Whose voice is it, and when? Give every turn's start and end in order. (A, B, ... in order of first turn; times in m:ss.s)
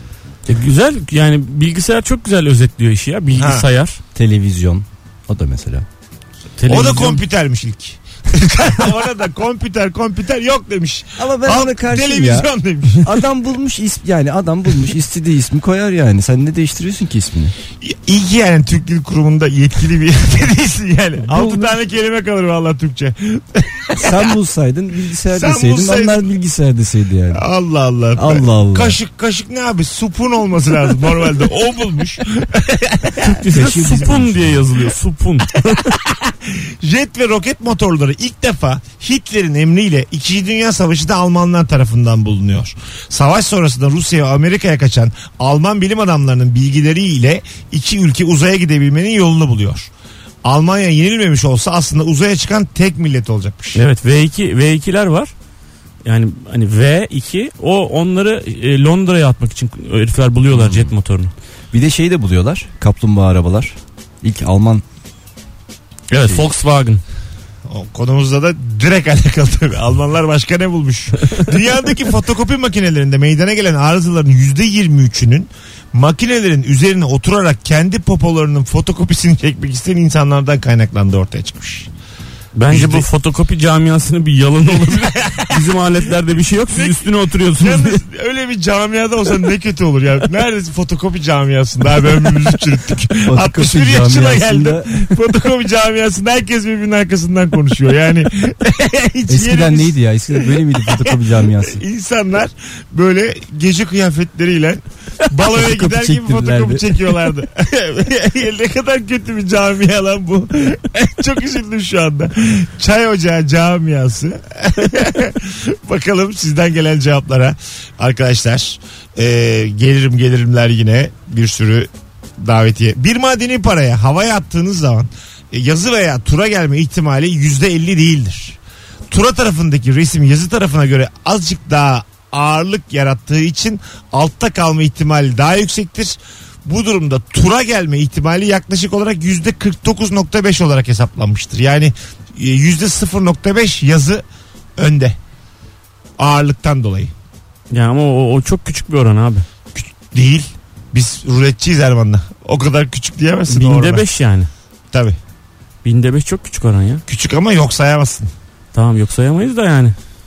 0:00.4-0:04.0 A
0:03.3-0:03.7 B
0:04.1-0:05.8 C
0:06.6-0:07.2 A
0:06.7-0:13.2 B
0:11.2-0:17.5 C
0:17.8-0:24.3 B
0:21.2-0:21.7 C
0:24.0-0:27.4 C
0:25.3-0:26.3 B
0:27.3-0:33.5 B
0:28.1-0:29.0 C
0:33.3-0:35.9 A
0:33.5-0:34.7 C
0:35.5-0:49.9 B
0:50.4-0:53.8 B
0:53.7-0:55.3 A
0:56.0-1:01.3 A
1:00.5-1:00.9 C
1:01.7-1:04.8 C
1:06.1-1:07.0 A
1:07.7-1:21.9 B
1:22.5-1:28.0 A
1:22.7-1:23.1 B
1:24.6-1:25.8 B
1:26.7-2:08.6 B
1:33.2-1:34.9 C
1:39.3-1:41.8 C
1:45.5-1:47.0 C
2:09.1-2:24.2 B
2:24.8-2:25.2 B
2:26.2-2:27.1 B
2:27.7-2:29.4 A
2:29.7-2:34.0 B
2:33.5-2:34.5 A
2:34.9-2:35.2 B
2:35.8-2:37.0 A
2:37.1-2:38.3 B
2:38.7-2:39.9 A